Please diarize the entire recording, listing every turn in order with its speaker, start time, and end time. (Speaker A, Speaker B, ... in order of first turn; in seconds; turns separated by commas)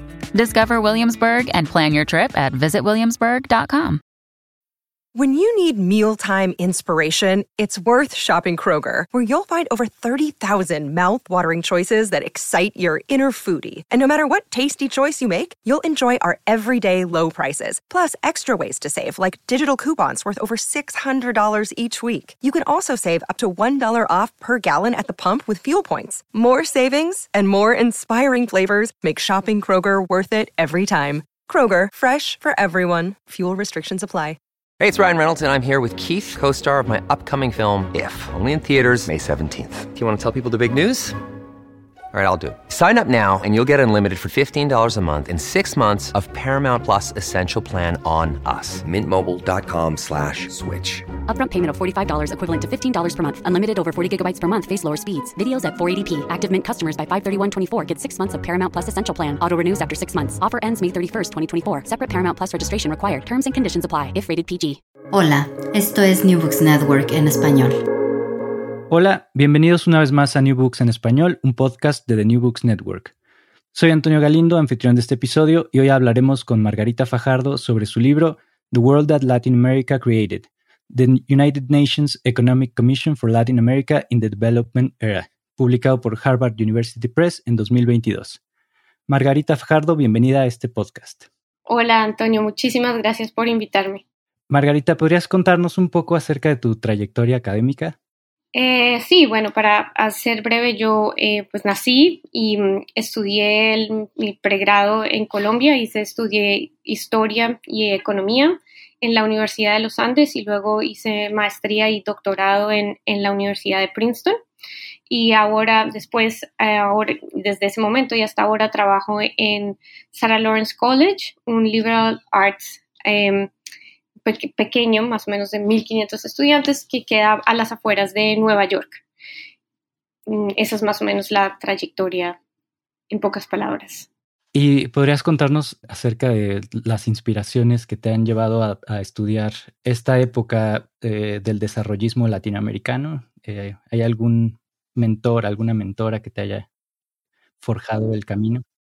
Speaker A: 0.3-4.0, Speaker B: 5.1-34.4, Speaker C: 34.8-41.2, Speaker C: 42.1-51.1, Speaker D: 51.3-64.8, Speaker E: 65.1-67.8, Speaker F: 68.9-73.1, Speaker F: 73.7-88.4, Speaker F: 89.1-91.3, Speaker G: 91.7-94.0, Speaker F: 94.5-98.0, Speaker G: 98.5-114.4, Speaker G: 115.1-123.5, Speaker G: 124.2-129.0, Speaker G: 130.3-132.4, Speaker G: 133.1-134.1, Speaker F: 134.5-146.7, Speaker F: 147.6-148.6